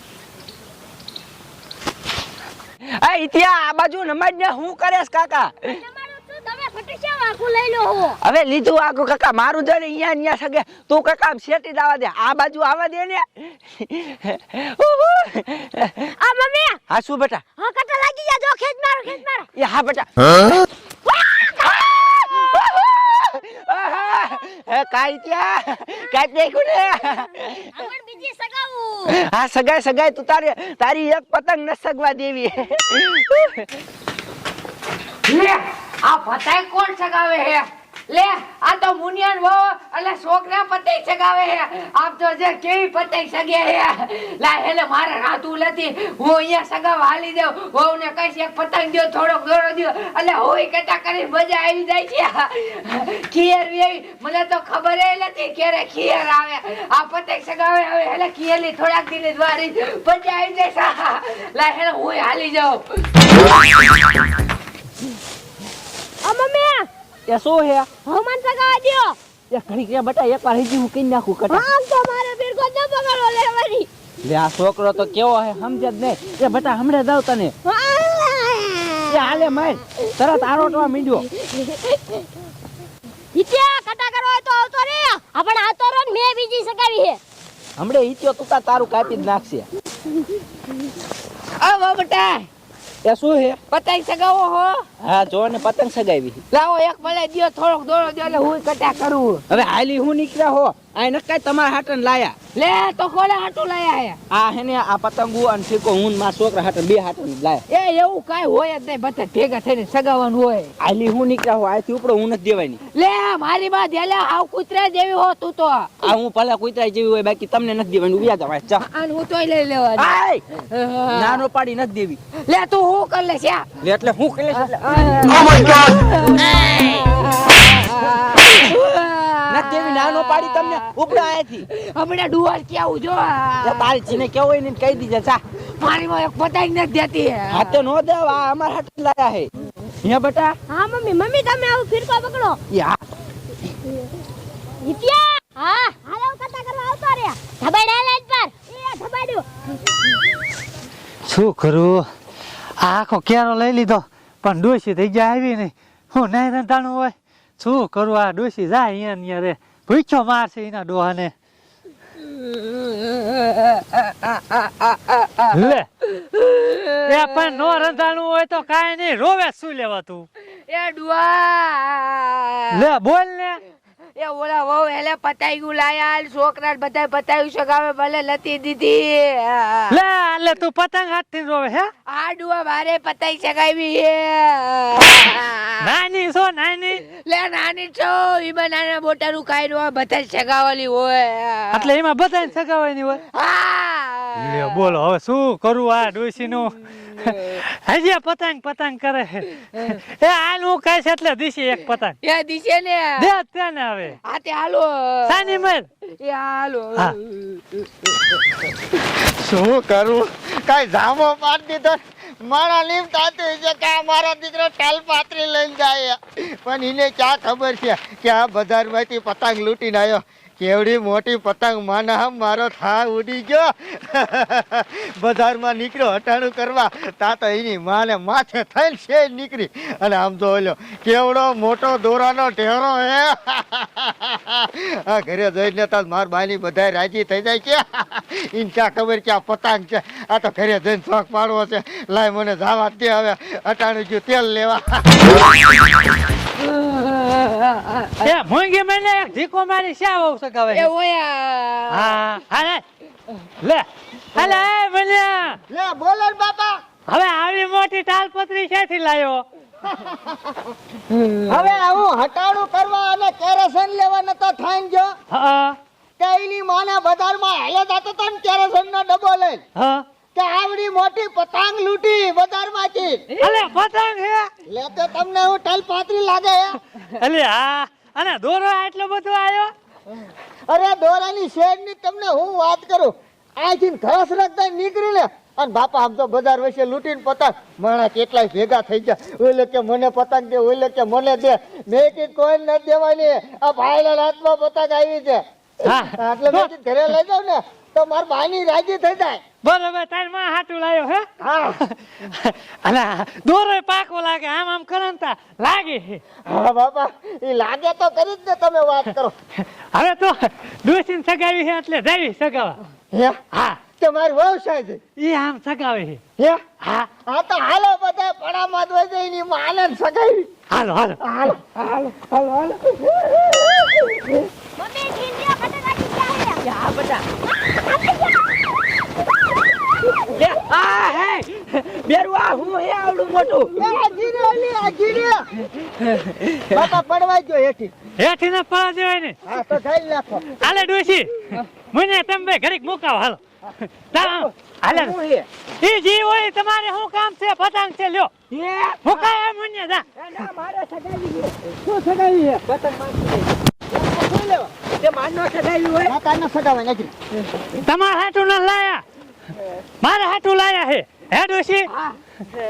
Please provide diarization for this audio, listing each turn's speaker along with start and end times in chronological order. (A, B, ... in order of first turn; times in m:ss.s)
0:02.8-0:05.7 A
0:05.6-0:08.2 B
0:08.2-0:16.0 A
0:16.1-0:16.8 B
0:16.9-0:17.4 A
0:17.6-0:19.5 B
0:19.6-0:20.6 A
0:21.4-0:27.8 A
0:27.6-0:29.2 B
0:29.0-0:33.7 A
0:35.2-1:02.8 C
1:06.2-1:06.9 B
1:07.3-1:07.9 A
1:08.0-1:09.2 B
1:09.5-1:11.7 A
1:11.5-1:13.9 B
1:14.2-1:17.5 A
1:17.6-1:19.2 B
1:19.1-1:21.3 A
1:21.5-1:22.2 B
1:23.3-1:27.2 B
1:27.8-1:29.7 A
1:31.6-1:32.5 C
1:33.0-1:33.6 A
1:33.7-1:34.8 C
1:35.0-1:36.4 A
1:36.5-1:39.4 C
1:39.5-1:42.4 A
1:42.5-1:44.2 C
1:44.3-1:47.6 A
1:47.7-1:50.7 C
1:50.8-1:52.8 A
1:52.9-1:55.9 C
1:56.0-1:58.8 A
1:58.8-2:01.4 C
2:00.0-2:00.4 A
2:01.1-2:02.2 A
2:02.4-2:03.7 C
2:03.8-2:06.9 A
2:04.6-2:11.2 C
2:08.0-2:08.6 A
2:09.5-2:11.7 A
2:11.7-2:14.1 C
2:13.6-2:15.4 A
2:15.8-2:17.8 C
2:17.5-2:19.5 A
2:20.0-2:20.5 A
2:20.7-2:22.6 B
2:22.7-2:23.0 A
2:24.8-2:29.4 B
2:31.2-2:32.0 D
2:32.8-2:41.3 D
2:42.2-2:47.7 C
2:45.5-2:45.9 D
2:47.0-2:50.2 D
2:50.7-2:52.8 C
2:52.7-2:53.6 D
2:54.2-3:00.0 C
2:59.9-3:01.9 D
3:02.1-3:05.9 C
3:05.8-3:07.0 D
3:07.1-3:11.8 C
3:11.7-3:13.2 D
3:13.3-3:14.8 C
3:14.4-3:22.2 D
3:22.2-3:23.3 C
3:23.2-3:24.2 D
3:24.2-3:28.2 C
3:25.3-3:25.9 D
3:29.1-4:05.4 E
4:06.6-4:08.3 C
4:08.2-4:10.9 D
4:10.7-4:12.1 C
4:11.9-4:12.8 D
4:13.6-4:15.6 D
4:15.7-4:16.8 E
4:17.1-4:19.4 D
4:19.8-4:20.5 E
4:21.1-4:21.6 C
4:21.5-4:25.1 E
4:25.3-4:25.8 D
4:26.2-4:29.6 E
4:29.8-4:30.0 D
4:30.3-4:33.2 E
4:33.4-4:34.5 D
4:34.7-4:36.8 E
4:37.1-4:39.7 D
4:40.7-4:59.4 E
4:55.8-4:56.7 D
4:59.6-5:01.3 D
5:01.4-5:01.8 E
5:01.8-5:06.2 D
5:06.4-5:09.3 E
5:09.9-5:12.8 D
5:13.1-5:15.0 E
5:13.5-5:13.8 D
5:15.2-5:16.2 D
5:17.2-5:20.5 E
5:20.7-5:21.2 D
5:21.2-5:21.7 E
5:21.8-5:24.3 A
5:24.8-5:26.6 B
5:26.6-5:27.2 A
5:27.9-5:28.3 B
5:30.3-5:33.8 A
5:33.8-5:35.5 E
5:36.0-5:36.9 A
5:36.7-5:37.9 E
5:38.2-5:39.4 D
5:39.4-5:40.5 E
5:40.6-5:43.4 D
5:43.9-5:45.2 D
5:44.2-5:45.5 A
5:45.8-5:48.3 D
5:48.5-5:49.3 A
5:49.0-5:50.0 D
5:50.2-5:51.8 A
5:51.8-5:52.5 E
5:52.4-5:53.6 A
5:54.1-5:56.2 A
5:56.0-5:57.1 E
5:57.8-5:59.0 D
6:00.0-6:01.9 D